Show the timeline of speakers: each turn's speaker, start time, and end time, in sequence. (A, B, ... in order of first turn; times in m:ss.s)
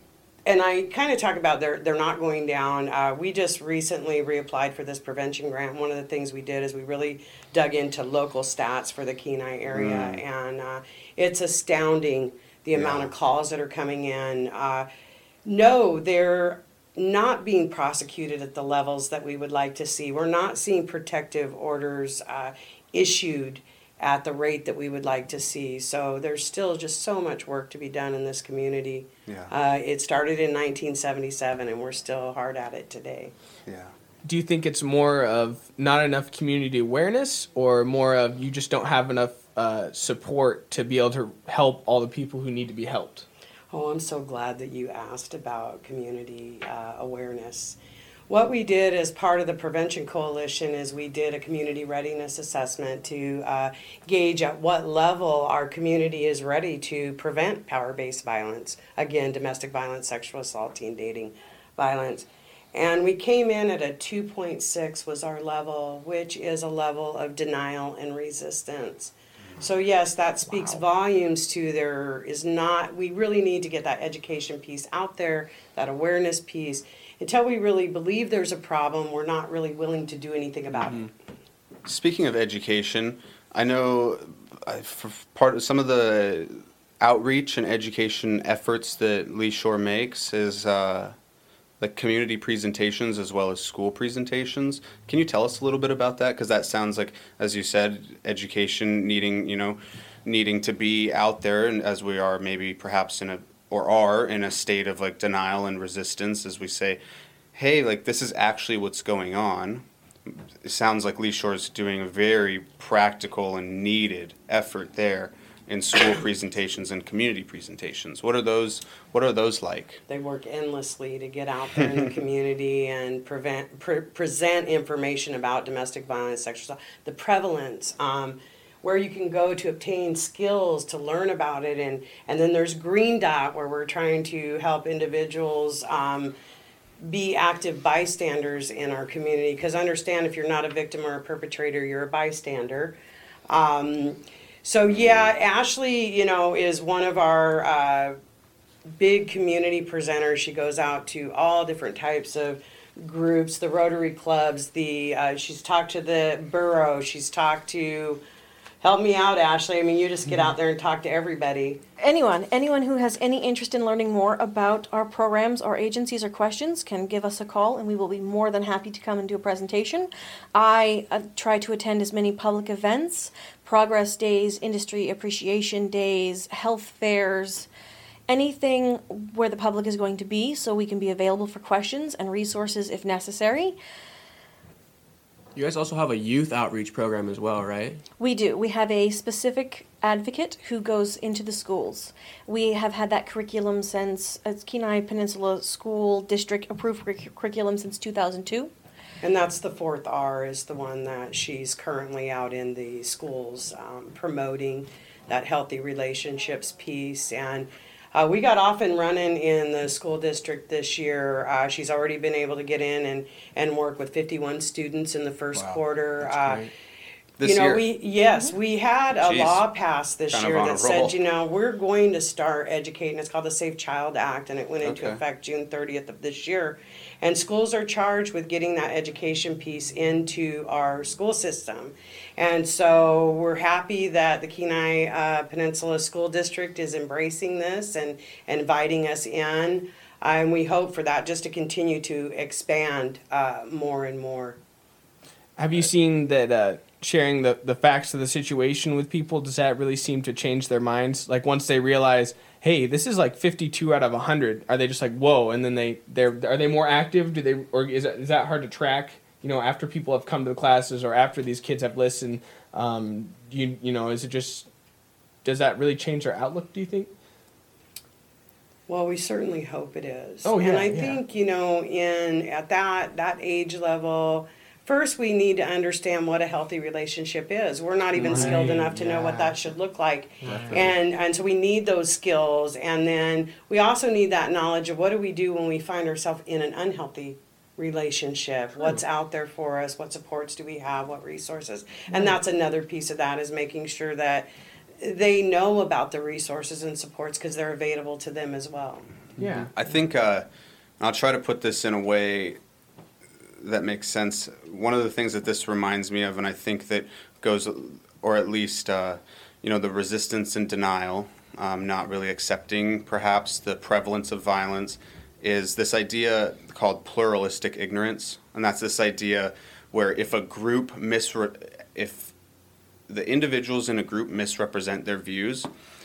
0:00.4-0:14.9 A
0:09.7-0:10.2 B
0:12.7-0:13.1 B
0:15.4-0:33.3 A
0:29.2-0:29.5 B
0:33.6-0:33.9 B
0:34.2-0:43.2 C
0:43.7-0:47.8 A
0:48.3-1:21.1 A
1:21.8-1:31.2 B
1:31.8-1:47.0 B
1:47.5-2:00.0 B
2:00.1-2:16.4 A
2:17.0-2:23.0 A
2:23.5-2:28.2 A
2:24.9-2:25.3 B
2:29.0-2:38.2 A
2:38.8-2:41.8 A
2:42.0-2:57.7 D
2:58.3-3:03.8 D
3:05.5-3:08.0 E
3:08.2-3:18.7 D
3:19.2-3:36.7 A
3:35.5-3:35.8 B
3:36.2-3:36.7 E
3:37.4-3:37.8 B
3:37.4-4:04.6 A
3:39.2-3:39.6 B
3:40.3-3:41.2 B
3:44.8-3:45.2 B
4:05.6-4:24.7 C
4:25.4-4:27.1 C
4:28.9-4:54.5 A
4:30.4-4:31.2 C
4:38.2-4:39.6 C
4:38.3-4:38.7 E
4:40.4-4:40.8 C
4:40.5-4:40.8 E
4:55.0-4:59.1 A
4:59.4-4:59.7 C
4:59.7-5:00.5 B
5:01.0-5:02.6 B
5:03.6-5:22.3 B
5:23.1-5:25.7 B